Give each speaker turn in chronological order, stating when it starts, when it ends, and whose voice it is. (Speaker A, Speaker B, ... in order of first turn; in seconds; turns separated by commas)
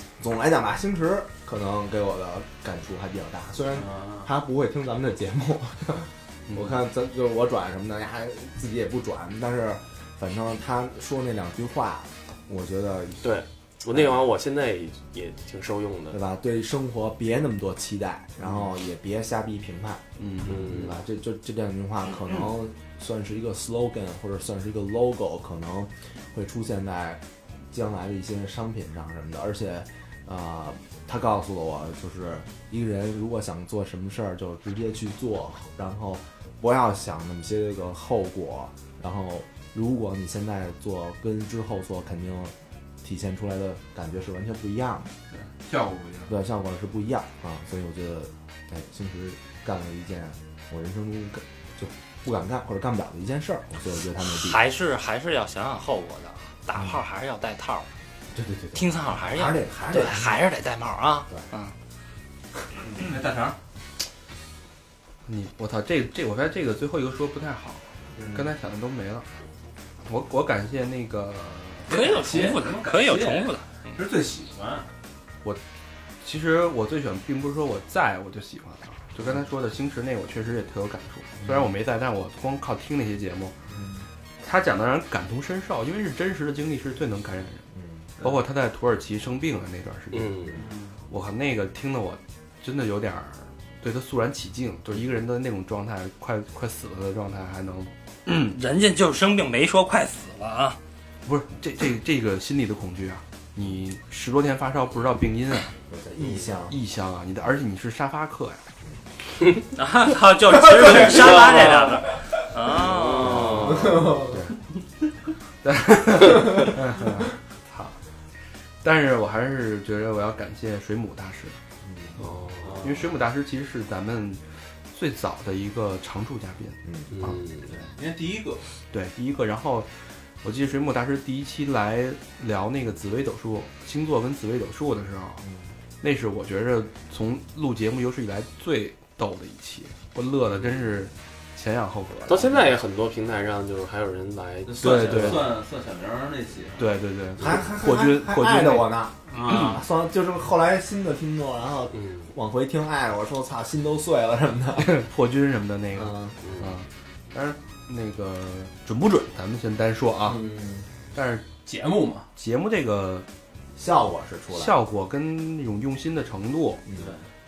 Speaker A: 0.2-13.2, Speaker B: 3.7-4.3, Speaker C: 6.5-6.8, Speaker D: 13.2-16.2, Speaker A: 16.1-45.1, Speaker C: 20.2-20.6, Speaker D: 20.4-21.0, Speaker B: 45.3-46.3, Speaker A: 46.3-54.6, Speaker E: 54.2-57.9, Speaker A: 58.3-60.4, Speaker E: 58.7-61.7, Speaker B: 62.9-63.5, Speaker C: 65.2-69.2, Speaker A: 68.2-68.5, Speaker C: 70.0-71.9, Speaker E: 71.9-73.6, Speaker B: 71.9-74.9, Speaker C: 76.2-83.5, Speaker A: 83.7-84.0, Speaker C: 84.4-87.6, Speaker C: 88.2-90.5, Speaker D: 90.1-90.6, Speaker B: 90.5-91.0, Speaker C: 91.1-98.5, Speaker E: 98.3-100.8, Speaker C: 101.2-105.7, Speaker A: 105.9-106.7, Speaker C: 106.7-108.6, Speaker E: 109.7-113.9, Speaker D: 112.9-114.0, Speaker C: 113.2-113.5, Speaker A: 113.6-114.4, Speaker C: 115.6-117.9, Speaker C: 118.8-121.5, Speaker A: 121.9-122.2, Speaker D: 122.2-122.9, Speaker C: 122.8-124.4, Speaker C: 124.9-127.3, Speaker A: 126.8-127.3, Speaker D: 127.1-127.7, Speaker B: 127.8-128.6, Speaker C: 128.9-129.9, Speaker C: 130.4-135.4, Speaker C: 136.0-142.7, Speaker D: 142.3-145.4, Speaker B: 144.7-146.9, Speaker C: 144.8-145.6, Speaker C: 146.8-148.9, Speaker A: 147.4-155.0, Speaker B: 149.3-149.8, Speaker C: 149.5-149.8, Speaker C: 154.8-160.4, Speaker A: 155.9-156.4, Speaker D: 156.4-156.7, Speaker A: 160.2-160.8, Speaker C: 161.1-161.5, Speaker B: 161.7-162.3, Speaker C: 162.3-163.3, Speaker A: 163.8-164.7, Speaker C: 164.5-166.8, Speaker B: 166.9-167.2